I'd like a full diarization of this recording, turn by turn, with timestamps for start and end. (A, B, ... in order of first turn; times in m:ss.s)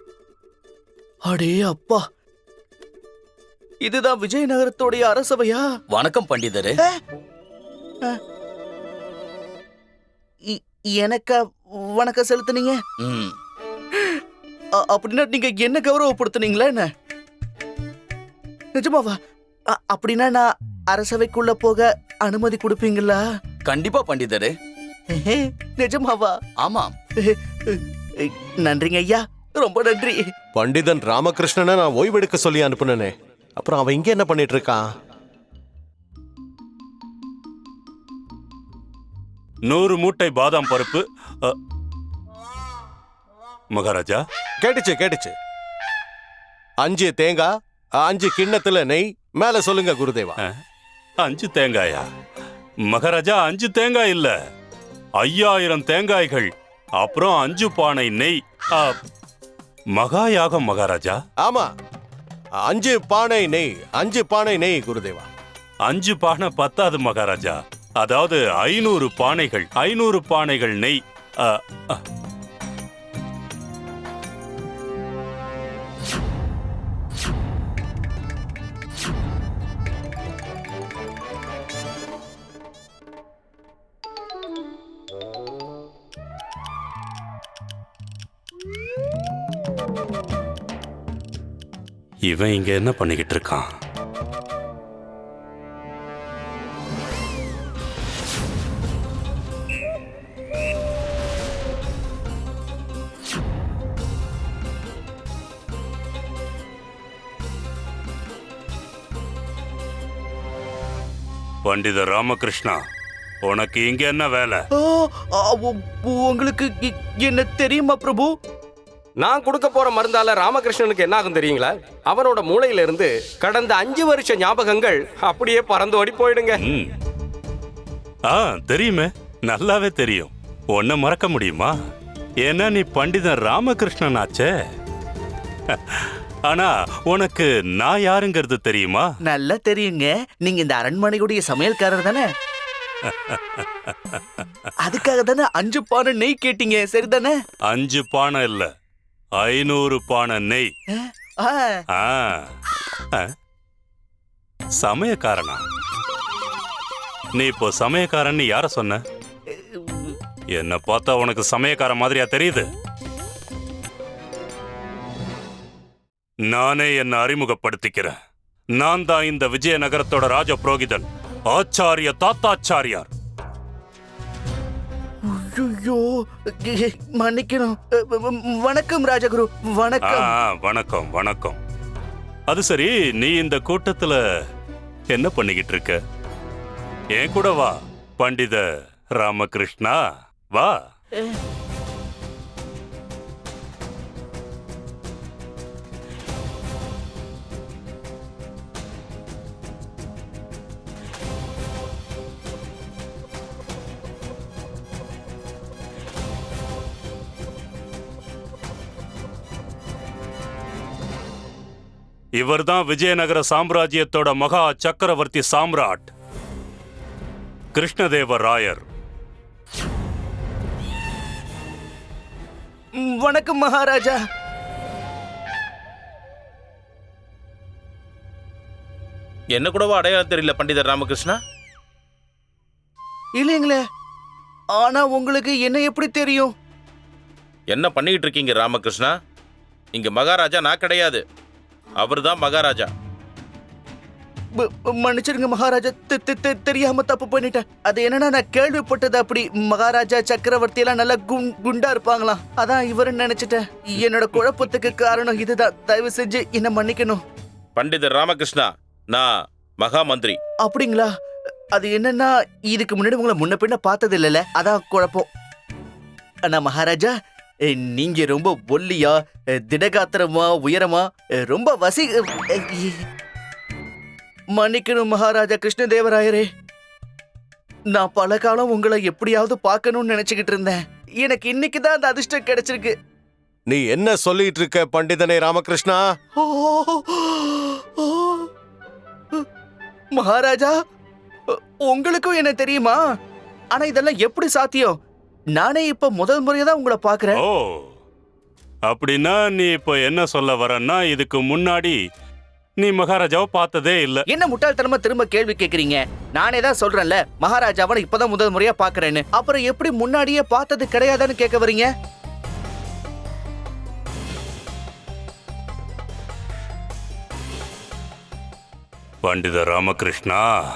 0:01.2-0:02.0 A
0:03.8-0:05.6 A
0:06.0-0:06.8 B
0:10.5-0:12.8 A
0:13.0-0:13.3 B
0:14.8-0:16.9 A
0:18.8-0:19.2 A
0:19.7-0:23.2 A
0:23.7-0:24.5 B
0:25.1-0:26.4 A
0:26.6-0:26.9 B
0:27.2-0:30.2 A
0:30.6-0:34.8 C
0:39.7-0:41.6 D
0:43.7-0:44.2 D
0:44.6-0:45.4 C
0:46.8-0:50.4 C
0:51.2-0:52.1 D
0:52.9-0:54.3 D
0:55.2-0:59.0 D
1:00.0-1:01.2 D
1:01.4-1:01.7 C
1:02.6-1:05.3 C
1:05.9-1:12.0 D
1:32.3-1:33.7 D
1:51.6-1:52.8 D
1:53.5-1:54.6 D
1:54.8-1:58.3 A
1:59.2-2:06.6 E
2:06.6-2:06.9 D
2:08.3-2:11.7 D
2:12.4-2:14.5 D
2:15.7-2:19.1 D
2:19.3-2:22.3 A
2:23.1-2:24.4 D
2:24.8-2:27.4 A
2:27.7-2:28.7 D
2:29.4-2:30.7 D
2:31.0-2:31.8 A
2:31.9-2:32.5 D
2:34.8-2:35.6 D
2:37.4-2:39.0 D
2:39.5-2:40.2 A
2:40.5-2:42.7 D
2:46.5-2:48.2 D
2:48.8-2:53.1 D
2:55.2-3:00.3 A
3:00.0-3:01.6 D
3:02.5-3:04.2 D
3:05.1-3:06.0 D
3:07.2-3:08.6 D
3:09.2-3:10.0 D
3:32.4-3:36.1 D
3:37.7-3:38.8 D
3:43.0-3:44.2 A
3:49.5-3:51.4 F
3:53.4-3:53.8 A
3:54.7-3:56.5 A
3:57.7-3:59.2 F
3:59.9-4:01.2 F
4:02.0-4:02.9 F
4:04.6-4:17.2 A
4:17.8-4:20.4 F
4:20.6-4:21.1 A
4:21.7-4:25.3 A
4:26.4-4:27.1 A
4:27.7-4:32.9 A
4:34.5-4:36.5 A
4:37.9-4:42.9 A
4:43.7-4:46.0 C
4:46.4-4:48.5 A
4:50.2-4:50.7 A
4:51.5-4:53.0 A
4:53.7-4:55.0 A
4:55.6-4:57.4 A
4:57.4-4:57.9 D
4:58.9-5:02.0 D
5:02.8-5:04.3 D
5:04.3-5:11.9 A
5:19.2-5:20.5 D